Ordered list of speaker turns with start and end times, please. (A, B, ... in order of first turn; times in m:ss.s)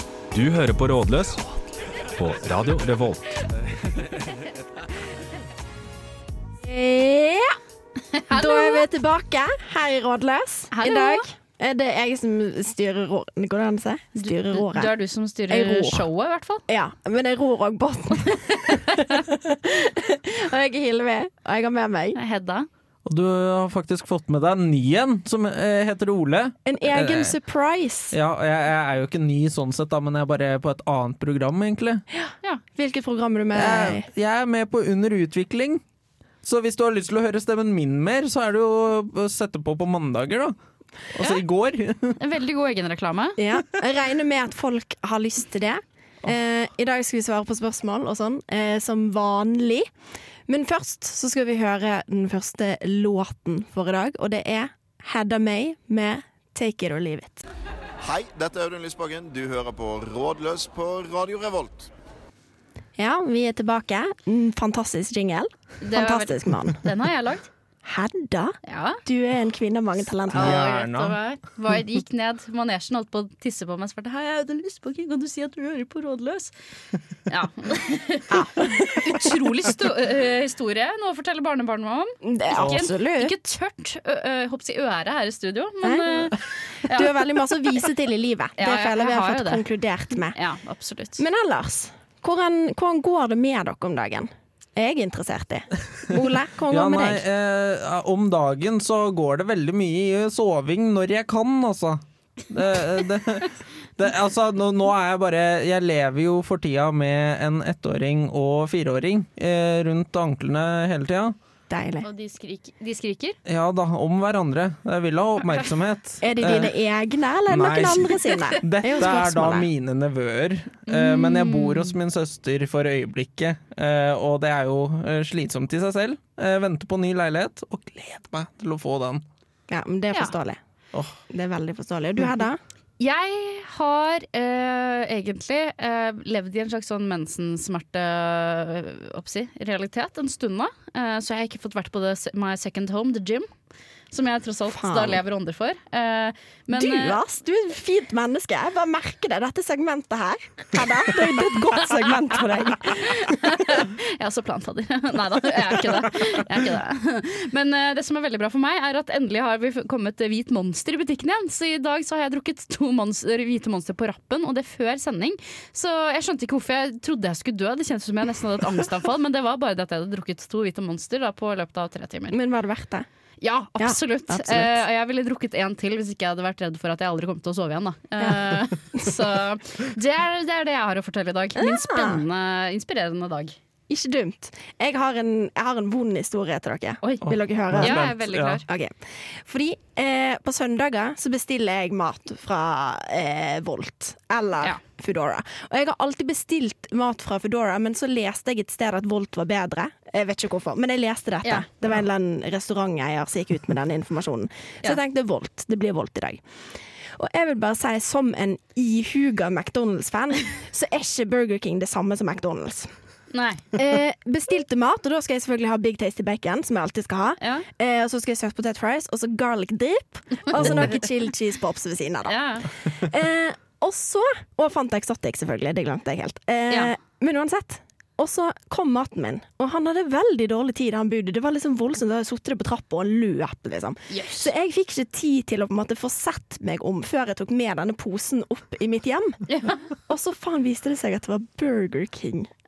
0:00.3-0:01.4 A
0:02.2-0:03.2 A
0:06.6-0:07.6 B
0:08.1-0:08.9 C
0:08.3-0:15.0 B
0:10.7-0:11.2 C
0:14.2-0:16.6 C
0:15.5-0:16.1 B
0:16.7-0:22.2 B
0:22.1-0:22.7 C
0:23.1-0:27.3 D
0:26.6-0:28.2 B
0:28.1-0:32.0 D
0:32.3-0:34.1 B
0:33.5-0:35.8 D
0:36.4-0:40.6 D
0:41.1-0:42.2 D
0:42.2-0:43.4 C
0:43.4-0:49.9 B
0:50.5-0:57.4 B
0:58.0-1:01.9 E
1:03.0-1:06.8 B
1:05.8-1:07.5 C
1:07.8-1:10.7 B
1:08.6-1:09.0 C
1:10.3-1:11.2 D
1:10.3-1:16.5 C
1:17.3-1:27.1 C
1:18.3-1:19.4 B
1:22.2-1:23.3 B
1:25.8-1:30.4 B
1:28.6-1:29.6 C
1:30.4-1:31.2 C
1:31.2-1:37.2 B
1:36.7-1:51.4 D
1:51.7-1:52.1 B
1:52.0-1:53.4 C
1:53.5-1:56.7 D
1:56.2-1:59.7 B
1:57.5-2:09.2 D
2:00.9-2:02.0 C
2:09.7-2:10.6 B
2:11.3-2:12.6 B
2:13.0-2:23.5 C
2:24.1-2:27.2 C
2:24.7-2:25.2 B
2:26.7-2:33.4 B
2:32.9-2:52.4 C
2:52.3-2:53.1 B
2:53.4-3:03.6 C
2:53.8-2:54.8 B
3:01.6-3:02.2 B
3:03.9-3:08.1 B
3:07.3-3:08.6 D
3:07.8-3:08.6 C
3:08.6-3:26.4 B
3:27.2-3:32.9 B
3:33.3-3:33.7 C
3:33.7-3:59.4 B
3:37.4-3:37.7 C
3:40.4-3:41.0 C
3:42.3-3:42.7 C
3:54.1-3:54.5 C
3:59.5-3:59.8 C
4:00.1-4:02.5 B